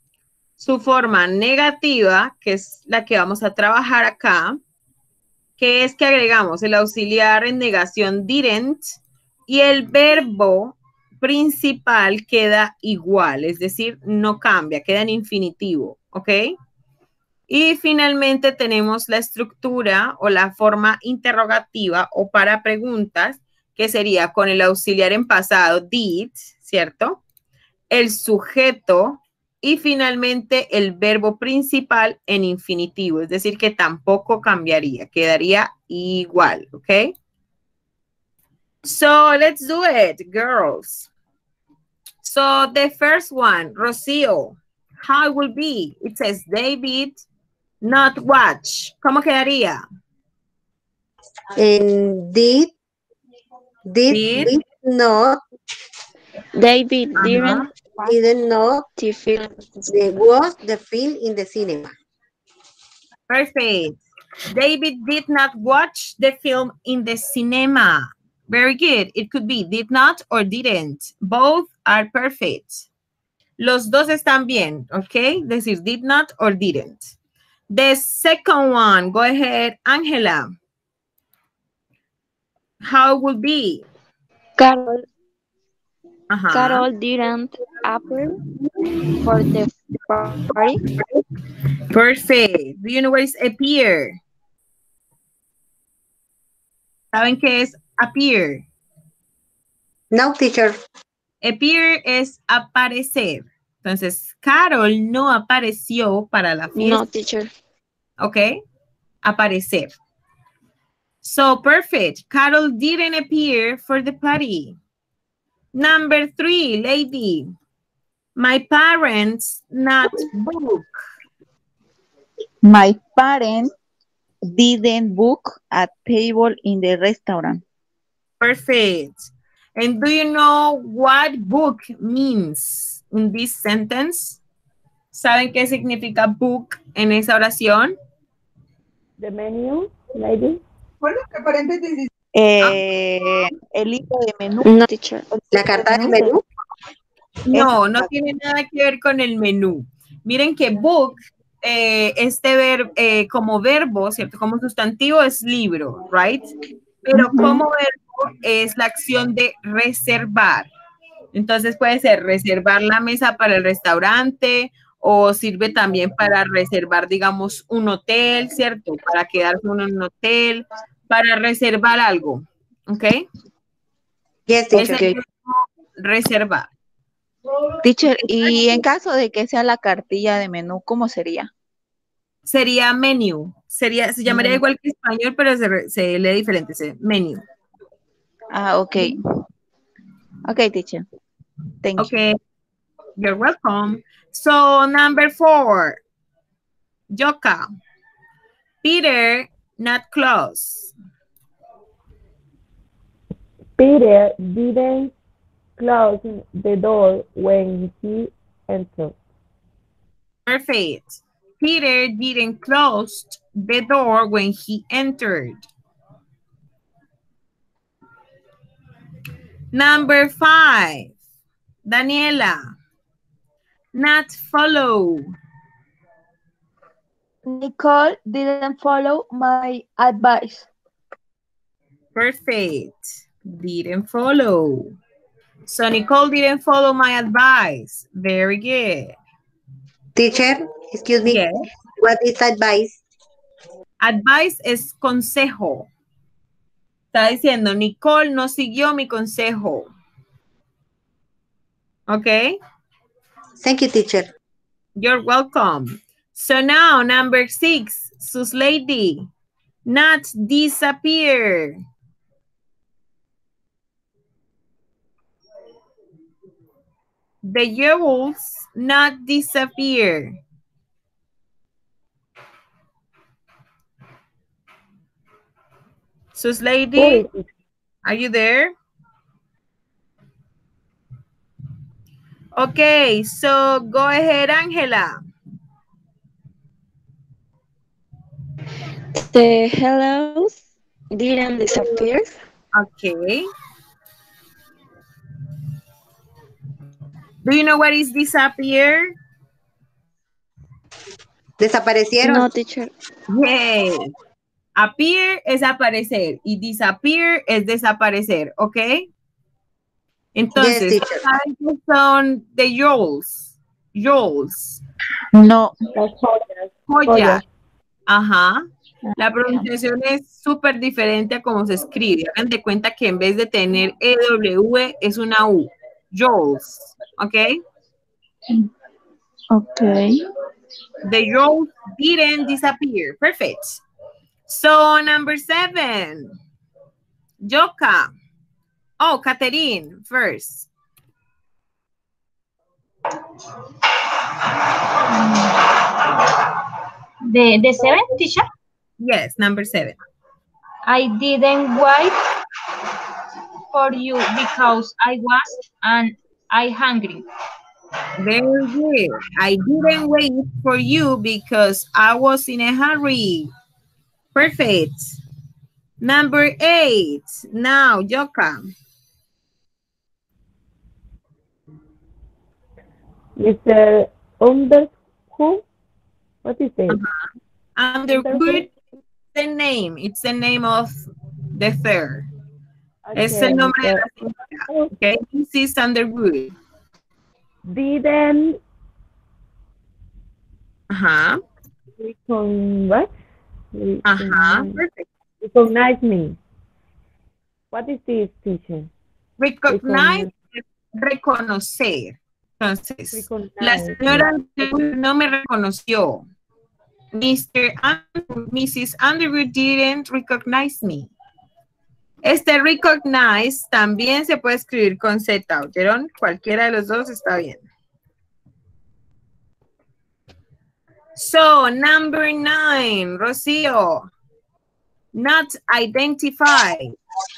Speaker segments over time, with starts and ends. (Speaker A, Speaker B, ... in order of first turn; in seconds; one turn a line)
Speaker A: 0.6-4.6
Speaker A: 5.6-16.4
Speaker A: 17.5-27.2
Speaker A: 27.9-37.1
Speaker A: 38.8-41.1
Speaker A: 42.2-47.2
Speaker A: 47.8-49.8
Speaker B: 51.5-52.7
Speaker B: 53.9-55.4
Speaker A: 54.1-54.6
Speaker C: 56.5-58.2
Speaker A: 57.1-57.7
Speaker B: 58.0-58.8
Speaker C: 59.0-59.9
Speaker B: 59.9-61.9
Speaker A: 63.3-64.0
Speaker A: 64.5-72.8
Speaker A: 73.6-77.1
Speaker A: 77.7-80.5
Speaker A: 82.8-83.8
Speaker C: 84.6-85.0
Speaker A: 86.3-86.9
Speaker C: 86.5-88.4
Speaker C: 89.2-90.8
Speaker A: 91.9-94.2
Speaker A: 97.1-98.6
Speaker B: 100.1-100.8
Speaker A: 101.4-107.0
Speaker C: 106.7-107.5
Speaker A: 108.2-108.6
Speaker A: 109.2-109.9
Speaker A: 111.2-114.8
Speaker A: 115.7-117.5
Speaker A: 118.4-121.0
Speaker D: 122.6-123.7
Speaker D: 124.5-127.6
Speaker A: 128.4-134.4
Speaker A: 135.1-137.9
Speaker E: 139.2-140.6
Speaker D: 142.3-144.8
Speaker C: 144.6-145.3
Speaker D: 145.3-146.4
Speaker B: 145.5-146.4
Speaker A: 147.5-156.5
Speaker D: 147.5-148.1
Speaker A: 157.0-160.7
Speaker D: 157.1-157.6
Speaker A: 161.3-173.2
Speaker B: 174.5-175.1
Speaker A: 174.7-176.7
Speaker D: 174.8-175.1
Speaker D: 177.8-181.5
Speaker A: 182.4-187.4
Speaker D: 184.3-184.6
Speaker D: 188.5-189.2
Speaker D: 190.4-191.0
Speaker D: 191.8-192.1
Speaker A: 192.0-192.3
Speaker A: 193.2-196.0
Speaker A: 197.1-197.7
Speaker A: 198.8-200.9
Speaker E: 203.8-205.1
Speaker E: 205.8-209.1
Speaker A: 210.5-215.7
Speaker A: 219.7-221.1
Speaker A: 221.8-222.6
Speaker A: 223.9-225.3
Speaker F: 227.4-230.7
Speaker A: 232.1-234.9
Speaker A: 235.7-239.1
Speaker B: 240.1-241.4
Speaker A: 241.2-241.6
Speaker B: 242.0-243.0
Speaker A: 244.0-245.9
Speaker A: 247.1-249.9
Speaker A: 252.1-252.6
Speaker B: 253.6-254.3
Speaker A: 255.0-259.3
Speaker A: 259.9-261.8
Speaker A: 267.4-270.4
Speaker A: 276.3-277.2
Speaker E: 276.9-277.5
Speaker A: 278.0-278.7
Speaker A: 282.6-285.2
Speaker C: 289.1-290.6
Speaker C: 291.1-292.4
Speaker A: 291.8-292.1
Speaker A: 292.7-293.5
Speaker A: 297.4-299.1
Speaker B: 301.6-302.5
Speaker C: 302.2-302.9
Speaker A: 303.3-304.1
Speaker A: 304.8-309.1
Speaker A: 310.3-314.8
Speaker B: 310.5-311.2
Speaker D: 315.3-315.8
Speaker E: 315.9-317.4
Speaker A: 316.9-317.4
Speaker A: 318.1-318.6
Speaker A: 319.2-327.6
Speaker D: 329.5-330.1
Speaker A: 331.0-333.8
Speaker A: 334.5-336.3
Speaker A: 337.4-338.1
Speaker A: 339.0-340.7
Speaker G: 345.1-345.6
Speaker G: 347.3-348.5
Speaker A: 349.0-349.9
Speaker G: 350.9-352.1
Speaker G: 353.7-357.2
Speaker A: 358.2-363.5
Speaker A: 364.3-365.2
Speaker A: 366.0-368.7
Speaker E: 373.4-375.6
Speaker E: 376.4-377.0
Speaker A: 376.9-377.1
Speaker A: 377.8-378.7
Speaker E: 378.1-378.7
Speaker A: 379.3-381.0
Speaker A: 381.5-382.3
Speaker E: 383.0-384.9
Speaker A: 383.1-386.5
Speaker E: 387.6-388.6
Speaker A: 390.9-391.4
Speaker E: 392.0-393.1
Speaker E: 393.7-394.8
Speaker A: 394.0-395.0
Speaker E: 395.4-396.4
Speaker E: 397.7-398.9
Speaker A: 399.4-406.2
Speaker E: 399.7-400.3
Speaker E: 403.1-404.7
Speaker A: 407.1-411.1
Speaker A: 412.2-417.6
Speaker A: 421.1-424.1
Speaker A: 425.1-426.9